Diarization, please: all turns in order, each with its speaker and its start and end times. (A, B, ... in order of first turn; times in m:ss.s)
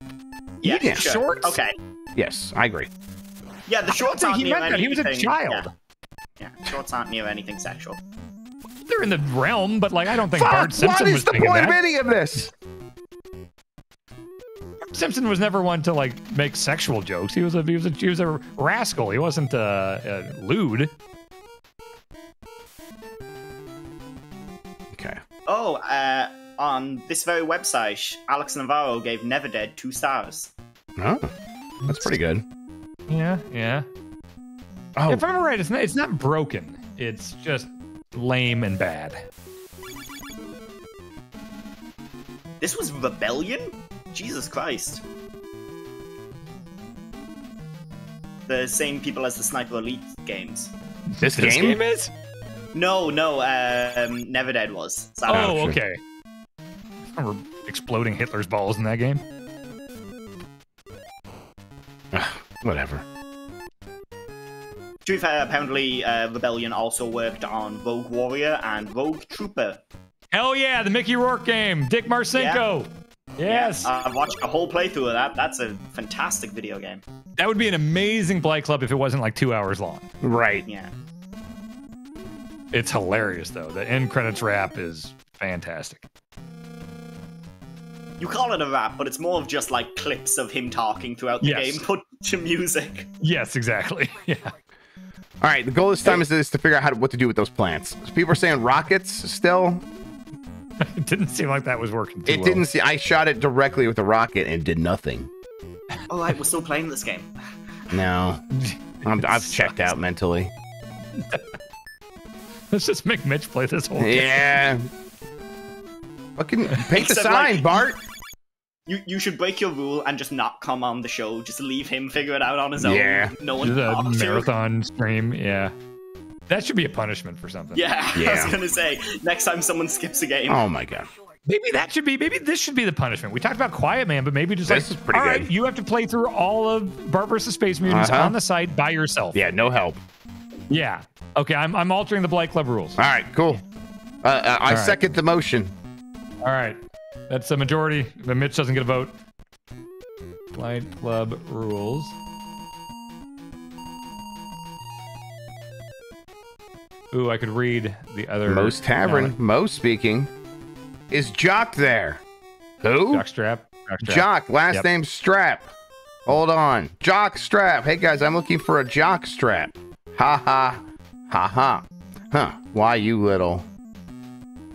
0:00.6-0:01.7 A
0:00.6-0:01.0 B
0:00.8-0:01.6 C
0:02.2-0:02.9 B
0:03.7-0:05.7 A
0:03.9-0:05.7 C
0:06.4-0:08.0 A
0:08.8-0:11.8 C
0:10.3-0:12.5 B
0:14.8-0:20.9 C
0:24.9-0:25.2 B
0:25.5-0:30.5 A
0:31.0-0:31.3 B
0:31.8-0:32.1 C
0:31.8-0:32.4 B
0:33.1-0:33.8 C
0:35.0-0:35.2 B
0:35.1-0:39.2 C
0:42.6-0:45.0 A
0:48.5-0:50.7 A
0:51.1-0:52.1 C
0:51.2-0:51.8 B
0:52.7-0:55.6 A
0:55.3-0:56.0 C
0:55.3-0:55.8 B
0:57.1-0:59.2 C
1:02.1-1:03.0 B
1:05.0-1:09.8 A
1:10.3-1:13.9 C
1:12.3-1:12.6 A
1:13.4-1:17.0 A
1:17.4-1:20.1 C
1:20.2-1:20.6 B
1:20.6-1:20.9 A
1:22.7-1:26.0 C
1:28.2-1:33.1 A
1:31.4-1:31.8 C
1:33.2-1:34.5 C
1:35.4-1:39.8 B
1:40.8-1:42.6 C
1:42.3-1:45.3 B
1:46.1-1:47.5 A
1:47.9-1:48.4 B
1:48.6-1:49.8 C
1:49.0-1:50.5 B
1:51.2-1:51.4 C
1:52.7-1:54.4 C
1:54.0-1:54.9 B
1:56.4-1:58.0 B
1:56.9-1:57.8 A
1:58.9-2:04.5 A
2:02.8-2:03.3 B
2:03.6-2:05.7 C
2:06.5-2:07.8 C
2:07.7-2:10.6 A
2:08.1-2:08.5 B
2:10.5-2:11.1 B
2:11.5-2:19.4 C
2:14.7-2:15.5 B
2:17.8-2:18.3 B
2:19.3-2:20.0 B
2:20.7-2:23.0 C
2:23.0-2:23.6 B
2:24.2-2:25.7 B
2:24.7-2:25.0 C
2:26.4-2:29.1 C
2:30.5-2:32.1 C
2:37.1-2:39.3 C
2:38.4-2:40.3 B
2:41.1-2:42.2 B
2:42.8-2:43.2 B
2:43.1-2:44.8 C
2:44.0-2:45.7 B
2:46.2-2:53.6 B